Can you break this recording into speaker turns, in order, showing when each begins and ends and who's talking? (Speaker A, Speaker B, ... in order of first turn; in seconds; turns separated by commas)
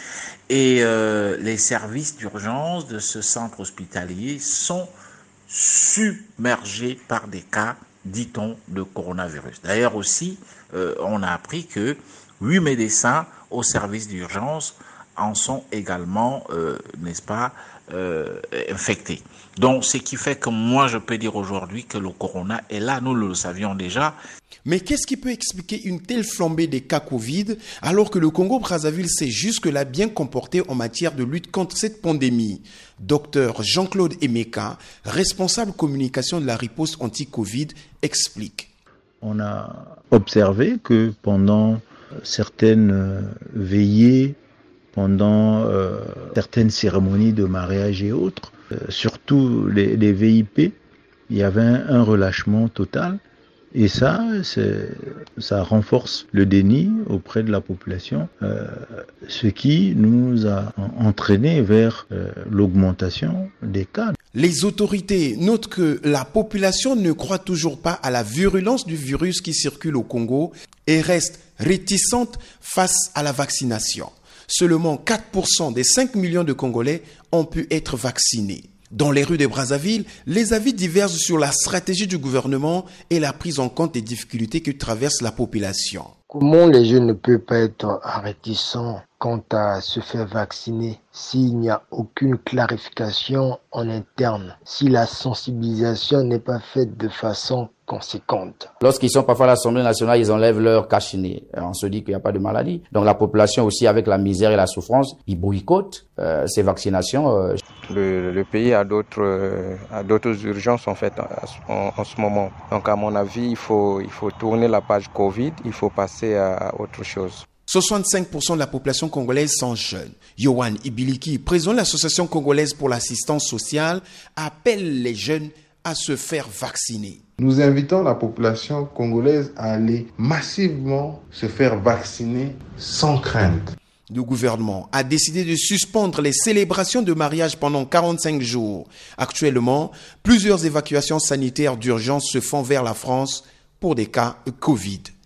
Speaker A: 0.5-4.9, Speaker A: 5.5-24.2, Speaker B: 24.6-38.7, Speaker C: 39.2-44.4, Speaker C: 44.9-50.7, Speaker C: 51.3-53.2, Speaker C: 53.7-64.1, Speaker B: 64.3-86.1, Speaker D: 86.3-98.7, Speaker E: 98.8-107.6, Speaker F: 107.9-117.5, Speaker B: 117.7-127.2, Speaker G: 127.4-133.7, Speaker B: 134.1-145.1